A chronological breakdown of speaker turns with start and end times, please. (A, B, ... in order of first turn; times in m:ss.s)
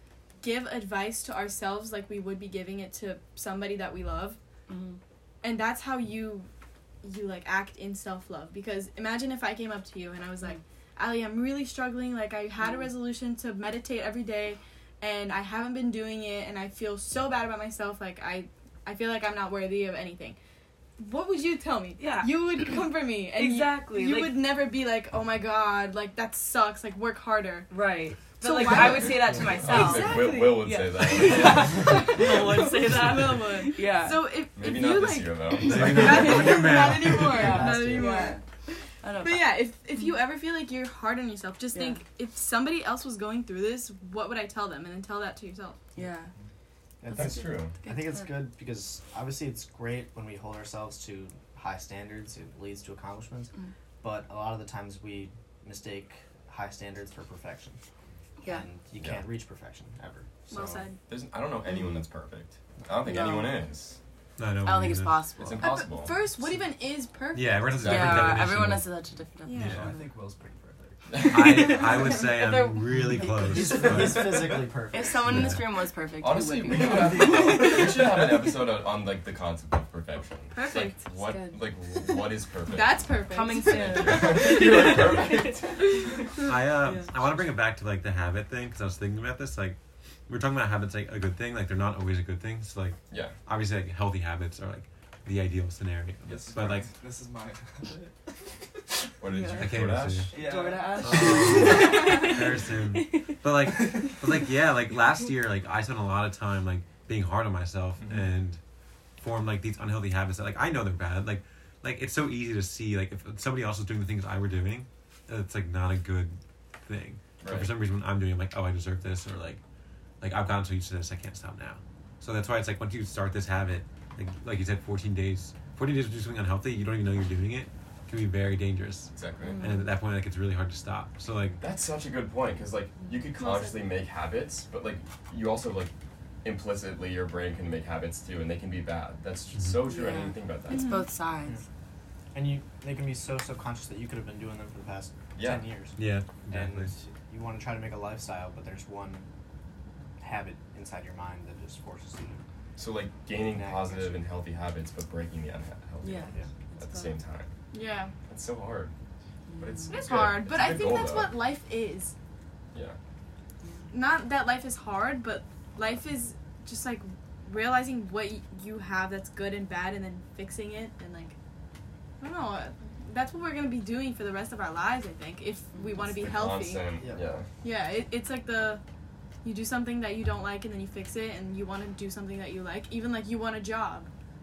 0:00.4-0:04.4 A
0:04.7-0:05.0 B
0:05.4-0:06.5 A
0:07.0-0:20.4 A
0:12.6-0:12.9 B
0:21.0-0:27.7 A
0:22.0-0:24.4 B
0:27.7-0:34.3 B
0:28.4-0:38.4 A
0:29.5-0:32.4 C
0:34.6-0:36.5 C
0:35.7-0:37.9 D
0:35.8-0:38.4 B
0:37.6-0:38.1 E
0:39.0-0:40.1 B
0:39.2-0:45.8 A
0:41.7-0:42.0 B
0:45.9-0:46.3 B
0:47.0-0:57.8 E
0:47.1-0:48.4 B
0:47.1-0:47.8 C
0:58.4-0:58.7 B
0:58.4-1:00.5 E
0:59.0-0:59.2 C
1:00.5-1:01.0 A
1:00.5-1:04.0 C
1:03.0-1:03.6 B
1:04.4-1:05.2 D
1:04.6-1:05.7 B
1:05.4-1:06.2 C
1:05.6-1:07.8 A
1:07.3-1:08.9 D
1:07.8-1:08.5 C
1:07.8-1:10.1 B
1:09.4-1:09.9 A
1:09.6-1:11.7 F
1:11.1-1:11.9 C
1:11.3-1:14.4 D
1:11.3-1:13.9 B
1:13.2-1:15.5 E
1:14.9-1:18.2 B
1:15.2-1:15.6 D
1:16.2-1:25.8 C
1:20.5-1:21.0 A
1:21.2-1:22.0 B
1:22.6-1:24.8 A
1:23.3-1:27.1 B
1:26.4-1:36.9 D
1:33.1-1:33.4 C
1:36.2-1:38.8 F
1:39.2-1:40.3 C
1:39.3-1:39.8 B
1:39.6-1:40.3 D
1:40.3-1:41.6 F
1:40.3-1:43.4 B
1:41.0-1:48.6 D
1:41.0-1:41.7 C
1:43.6-1:44.2 F
1:48.0-1:48.3 C
1:49.2-1:59.6 D
1:57.4-1:57.7 C
2:00.2-2:11.6 D
2:09.1-2:09.6 C
2:09.4-2:09.9 B
2:11.6-2:15.9 C
2:13.4-2:13.8 A
2:16.4-2:21.0 C
2:19.6-2:19.8 D
2:19.8-2:21.6 B
2:20.7-2:21.1 A
2:22.3-2:29.3 E
2:25.4-2:25.6 C
2:26.0-2:26.9 D
2:30.2-2:32.4 E
2:32.8-2:37.5 C
2:33.3-2:34.3 E
2:36.0-2:37.2 B
2:36.2-2:36.5 E
2:37.7-2:38.1 A
2:38.3-2:38.9 C
2:39.5-2:40.1 B
2:39.6-2:41.3 C
2:39.9-2:42.1 A
2:42.7-2:43.0 C
2:43.6-2:43.9 B
2:43.9-2:51.4 A
2:52.2-2:57.0 A
2:55.7-2:56.0 B
2:56.0-2:57.5 C
2:57.0-2:57.3 E
2:57.6-2:58.8 A
2:59.4-3:04.1 A